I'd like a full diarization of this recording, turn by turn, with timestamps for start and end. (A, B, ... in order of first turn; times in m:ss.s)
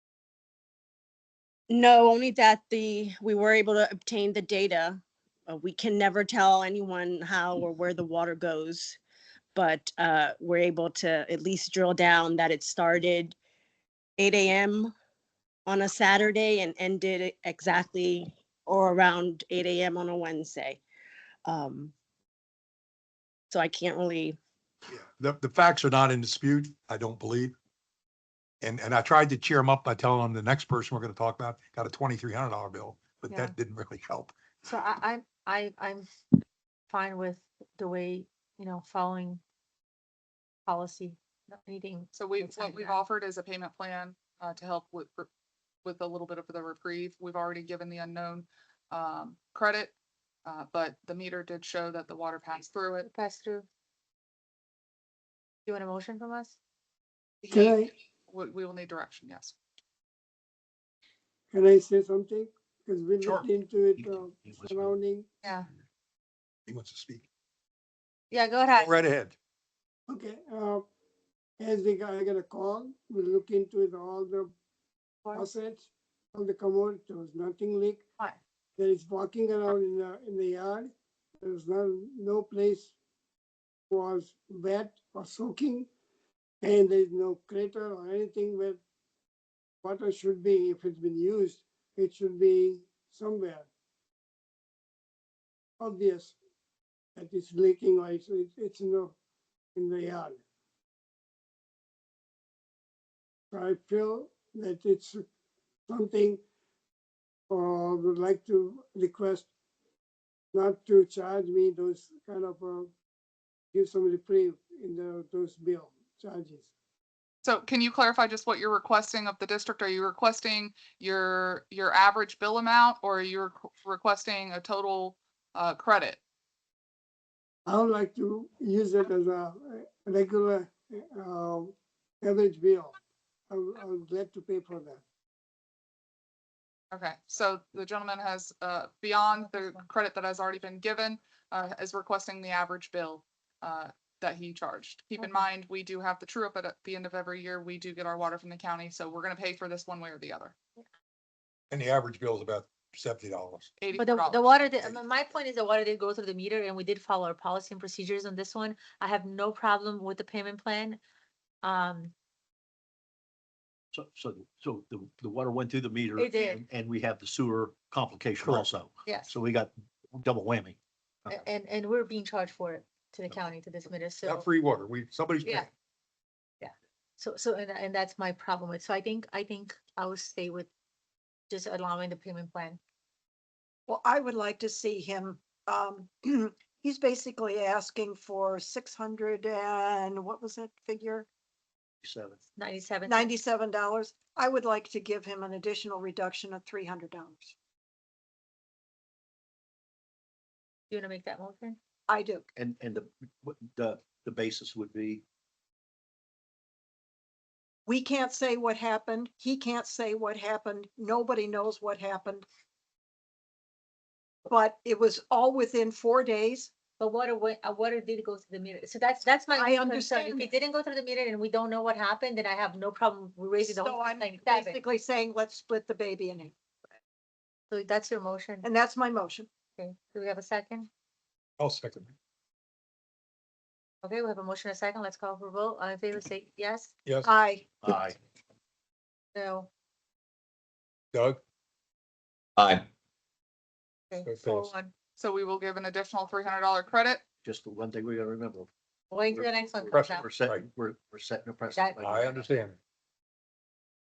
0:01.7-0:09.0 A
0:09.5-0:13.4 A
0:14.2-0:14.9 A
0:15.6-0:20.8 A
0:21.4-0:21.9 A
0:23.5-0:24.4 A
0:24.9-0:27.5 B
0:28.6-0:34.3 B
0:34.6-0:36.1 C
0:36.9-0:39.4 C
0:40.6-0:43.0 C
0:42.1-0:45.3 D
0:45.8-0:49.9 D
0:50.4-0:53.1 D
0:53.0-0:53.6 C
0:55.6-0:56.6 C
0:57.5-0:57.9 E
0:58.3-0:59.5 D
1:01.5-1:05.3 E
1:04.0-1:04.9 F
1:06.7-1:07.2 B
1:08.3-1:08.9 C
1:08.8-1:09.4 B
1:10.1-1:10.8 E
1:11.6-1:14.5 E
1:15.2-1:15.5 C
1:15.3-1:18.0 E
1:18.8-1:20.9 E
1:21.4-1:22.9 E
1:23.9-1:25.9 E
1:26.6-1:28.8 E
1:29.8-1:33.7 E
1:35.8-1:36.3 E
1:37.2-1:39.1 E
1:39.7-1:40.4 E
1:43.5-1:45.2 E
1:45.9-1:46.4 E
1:47.5-1:49.5 E
1:50.5-1:52.9 E
1:53.7-1:56.7 E
1:57.4-2:06.2 D
2:07.6-2:13.0 E
2:13.5-2:15.0 E
2:16.9-2:30.5 D
2:19.4-2:19.8 C
2:25.2-2:25.4 C
2:31.7-2:33.7 B
2:33.8-2:34.6 D
2:33.9-2:41.0 C
2:41.6-2:42.1 C
2:43.9-2:51.4 F
2:46.2-2:46.6 C
2:48.4-2:48.7 B
2:49.0-2:49.3 C
2:51.3-2:54.5 C
2:54.2-2:55.7 B
2:55.4-2:55.7 C
2:56.6-3:00.7 C
3:01.5-3:02.8 C
3:03.9-3:11.3 G
3:12.0-3:12.4 F
3:12.6-3:13.3 C
3:13.0-3:17.5 G
3:20.9-3:21.8 C
3:22.1-3:22.4 G
3:22.5-3:25.2 F
3:27.8-3:32.4 G
3:34.5-3:36.7 G
3:37.0-3:44.8 C
3:39.5-3:40.5 G
3:43.6-3:46.5 G
3:47.7-3:48.7 C
3:48.6-3:49.5 G
3:49.8-3:50.9 C
3:51.6-3:52.1 B
3:54.0-3:56.9 C
3:57.2-3:57.8 G
3:57.8-3:58.2 F
3:59.3-3:59.7 C
4:01.1-4:01.4 B
4:02.6-4:02.8 B
4:04.1-4:04.9 C
4:04.2-4:04.7 B
4:05.2-4:07.2 D
4:07.4-4:08.7 F
4:09.1-4:10.2 C
4:09.3-4:12.4 F
4:09.9-4:10.6 B
4:11.7-4:12.0 C
4:12.0-4:12.8 B